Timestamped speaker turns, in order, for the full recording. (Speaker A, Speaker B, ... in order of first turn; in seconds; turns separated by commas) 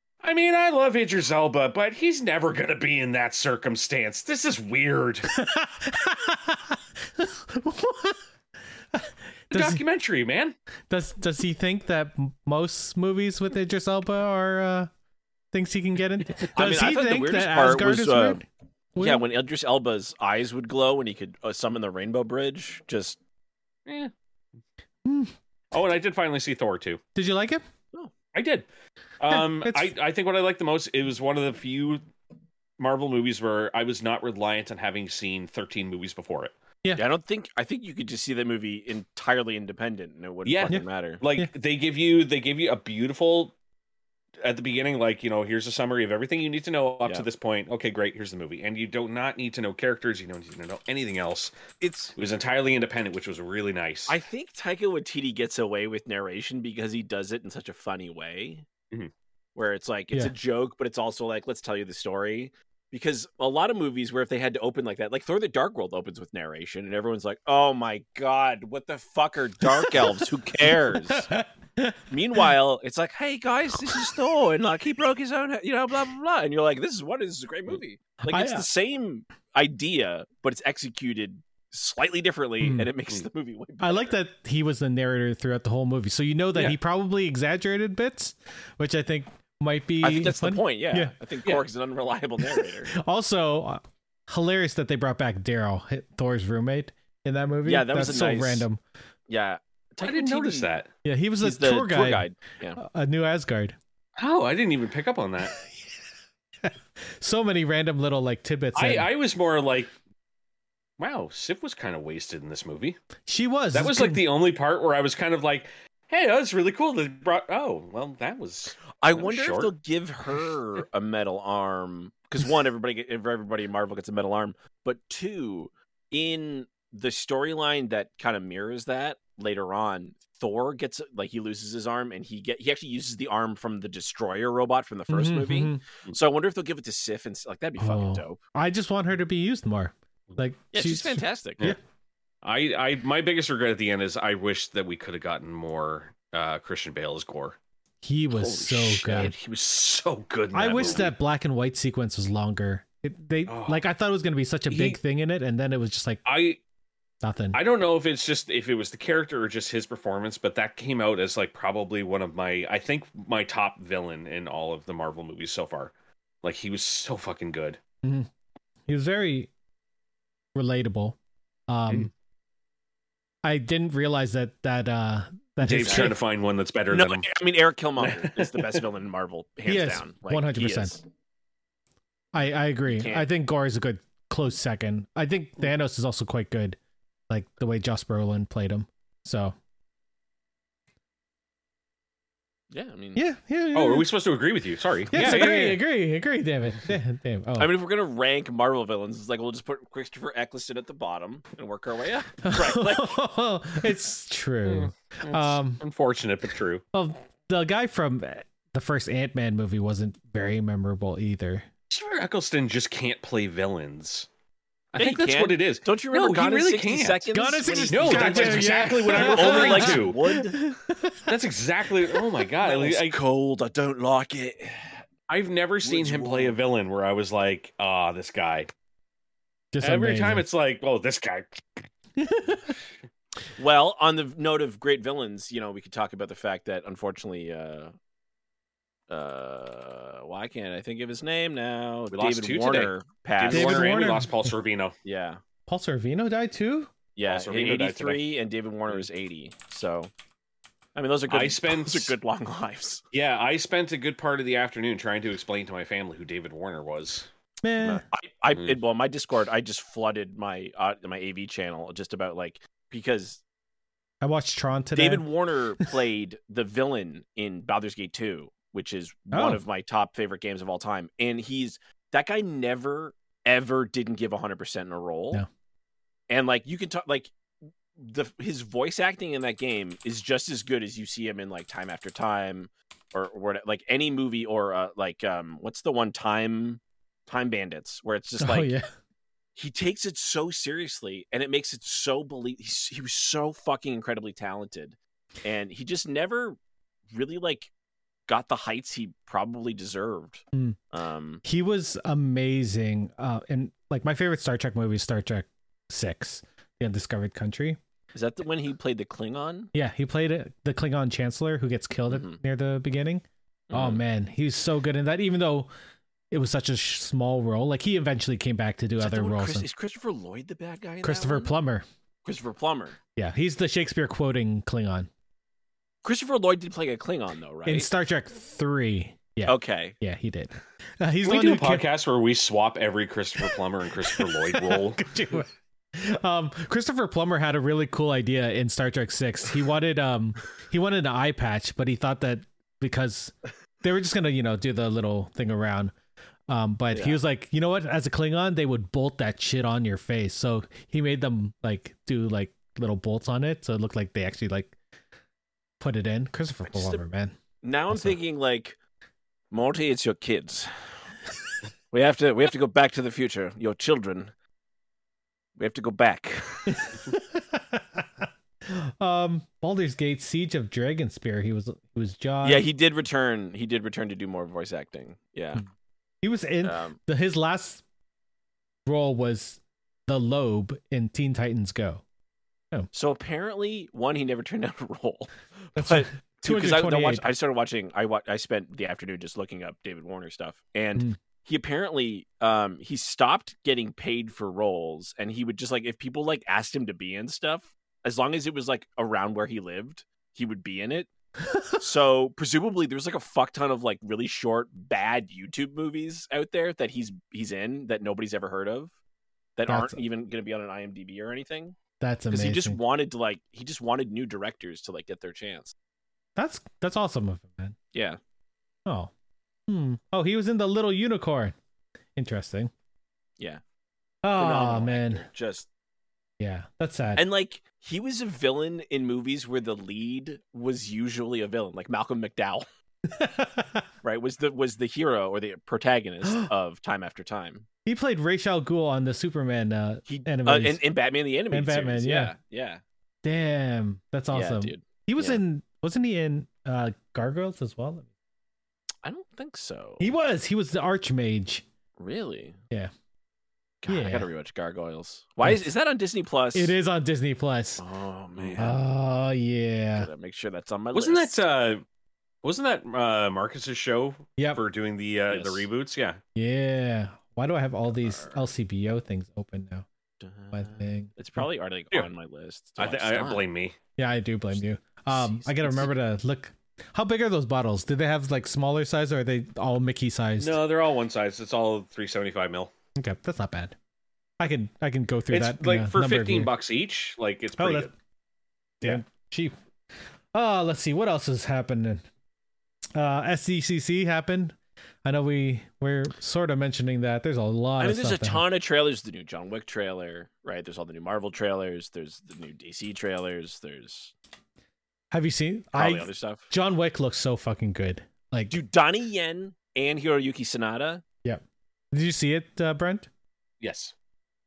Speaker A: 0.2-5.3, Speaker B: 5.3-8.2, Speaker B: 8.9-9.8, Speaker A: 9.5-10.6, Speaker B: 10.9-14.9, Speaker B: 15.5-18.4, Speaker C: 16.6-18.4, Speaker B: 19.0-19.2, Speaker C: 19.0-23.2, Speaker A: 23.9-24.1, Speaker B: 25.1-25.3, Speaker A: 25.7-27.0, Speaker B: 27.1-27.6, Speaker A: 28.3-28.7, Speaker A: 29.2-32.0, Speaker B: 29.3-29.9, Speaker A: 32.8-36.5, Speaker C: 37.0-41.2, Speaker A: 40.5-43.5, Speaker A: 44.4-51.5, Speaker C: 51.8-52.1, Speaker A: 52.2-54.2, Speaker C: 54.1-58.7, Speaker C: 59.6-71.3, Speaker B: 71.1-72.0, Speaker C: 72.1-84.2, Speaker B: 78.3-78.7, Speaker B: 82.6-82.9, Speaker B: 83.8-91.1, Speaker C: 90.0-92.9, Speaker B: 92.6-98.8, Speaker C: 97.7-98.7, Speaker C: 99.3-100.7, Speaker A: 100.0-100.9, Speaker B: 101.0-103.8, Speaker C: 101.4-102.8, Speaker A: 104.2-105.5, Speaker B: 106.6-109.1, Speaker A: 108.8-109.9, Speaker A: 111.0-113.0, Speaker B: 113.3-114.2, Speaker A: 113.7-119.7, Speaker C: 119.0-138.4, Speaker B: 135.1-135.8, Speaker B: 137.8-141.8, Speaker C: 140.7-141.8, Speaker A: 142.4-147.6, Speaker B: 148.0-149.3, Speaker A: 148.3-151.1, Speaker B: 150.5-156.2, Speaker A: 153.5-153.8, Speaker A: 154.7-155.0, Speaker A: 156.2-156.6, Speaker B: 157.2-157.6, Speaker A: 157.5-165.9, Speaker A: 166.4-167.8, Speaker B: 168.9-169.5, Speaker B: 170.6-171.2, Speaker B: 171.7-172.1, Speaker B: 173.4-176.2, Speaker A: 175.6-177.4, Speaker C: 175.8-176.2, Speaker C: 176.9-181.0, Speaker A: 178.0-178.8, Speaker B: 179.7-181.0, Speaker B: 182.3-186.8, Speaker C: 182.9-183.3, Speaker B: 187.3-189.6, Speaker C: 192.7-193.2, Speaker B: 193.2-194.1, Speaker A: 193.7-195.8, Speaker B: 195.1-197.7, Speaker C: 197.6-203.1, Speaker B: 202.4-205.8, Speaker A: 204.7-206.8, Speaker B: 206.9-211.7, Speaker A: 211.9-214.3, Speaker A: 214.9-220.2, Speaker C: 214.9-220.6, Speaker B: 217.3-221.2, Speaker A: 221.3-223.2, Speaker C: 222.6-225.0, Speaker A: 225.3-228.7, Speaker C: 225.8-226.6, Speaker B: 229.7-230.5, Speaker A: 229.8-231.8, Speaker B: 232.2-232.6, Speaker C: 233.6-237.9, Speaker C: 239.1-244.1, Speaker A: 242.1-244.9, Speaker B: 243.5-244.5, Speaker C: 245.1-245.4, Speaker B: 245.7-246.9, Speaker C: 247.2-250.1, Speaker A: 247.3-248.2, Speaker C: 250.9-253.0, Speaker A: 251.3-252.1, Speaker A: 253.1-257.3, Speaker B: 257.6-258.0, Speaker C: 257.8-263.4, Speaker B: 264.2-265.2, Speaker C: 264.9-275.4, Speaker B: 269.3-269.6, Speaker C: 276.3-288.7, Speaker B: 288.4-288.9, Speaker C: 289.6-296.6, Speaker C: 297.1-297.7, Speaker C: 298.3-301.4, Speaker B: 301.4-307.8, Speaker C: 308.1-309.7, Speaker B: 309.7-315.7, Speaker C: 312.1-312.4, Speaker C: 313.7-314.0, Speaker B: 316.3-319.7, Speaker C: 319.0-321.6, Speaker B: 321.0-321.9, Speaker C: 322.2-323.0, Speaker B: 323.2-325.1, Speaker C: 326.0-327.9, Speaker B: 327.7-331.9, Speaker C: 329.5-330.0, Speaker A: 331.2-335.0, Speaker B: 334.1-345.9, Speaker B: 346.5-354.7, Speaker C: 346.9-347.2, Speaker B: 355.8-357.4, Speaker C: 356.7-357.1, Speaker C: 357.6-358.8, Speaker B: 357.9-358.2, Speaker C: 359.5-360.7, Speaker C: 361.9-364.3, Speaker C: 365.6-366.9, Speaker B: 366.7-372.6, Speaker C: 372.4-375.6, Speaker B: 376.2-377.8, Speaker C: 376.6-377.0, Speaker B: 378.9-382.0, Speaker C: 382.9-401.1, Speaker B: 385.8-387.3, Speaker B: 401.4-401.8, Speaker C: 401.8-408.9, Speaker C: 409.6-411.8, Speaker B: 409.7-410.0, Speaker B: 412.0-412.8, Speaker C: 412.3-415.7, Speaker B: 416.4-417.8, Speaker C: 417.9-418.2, Speaker B: 418.9-419.1, Speaker B: 419.7-421.6, Speaker B: 422.2-422.7, Speaker B: 424.2-425.3, Speaker C: 424.4-425.7, Speaker B: 426.4-427.2, Speaker C: 427.2-432.7, Speaker B: 433.1-433.9, Speaker C: 434.0-437.7, Speaker B: 436.2-436.5, Speaker B: 437.9-440.8, Speaker C: 440.1-442.8, Speaker B: 441.5-442.3, Speaker B: 443.2-448.1, Speaker C: 444.3-445.4, Speaker C: 449.0-450.1, Speaker B: 450.0-451.7, Speaker C: 452.0-452.6, Speaker C: 453.8-456.8, Speaker B: 453.9-454.3, Speaker B: 455.4-455.7, Speaker B: 456.5-457.8, Speaker C: 457.8-458.8, Speaker B: 458.6-460.1, Speaker C: 460.0-461.4, Speaker A: 460.9-461.8, Speaker A: 462.4-466.2, Speaker C: 465.3-465.7, Speaker B: 466.4-469.9, Speaker C: 467.9-468.5, Speaker C: 470.2-473.5, Speaker B: 470.5-471.5, Speaker A: 472.8-473.8, Speaker B: 474.0-480.6, Speaker C: 474.6-475.9, Speaker A: 480.4-482.7, Speaker B: 483.0-483.8, Speaker B: 484.4-486.5, Speaker A: 485.3-487.9, Speaker B: 487.6-487.9, Speaker B: 488.8-489.6, Speaker B: 490.3-492.0, Speaker B: 492.9-498.4, Speaker C: 497.8-504.1, Speaker B: 505.1-508.6, Speaker C: 505.7-506.5, Speaker C: 508.5-511.0, Speaker B: 511.2-513.1, Speaker A: 513.6-513.9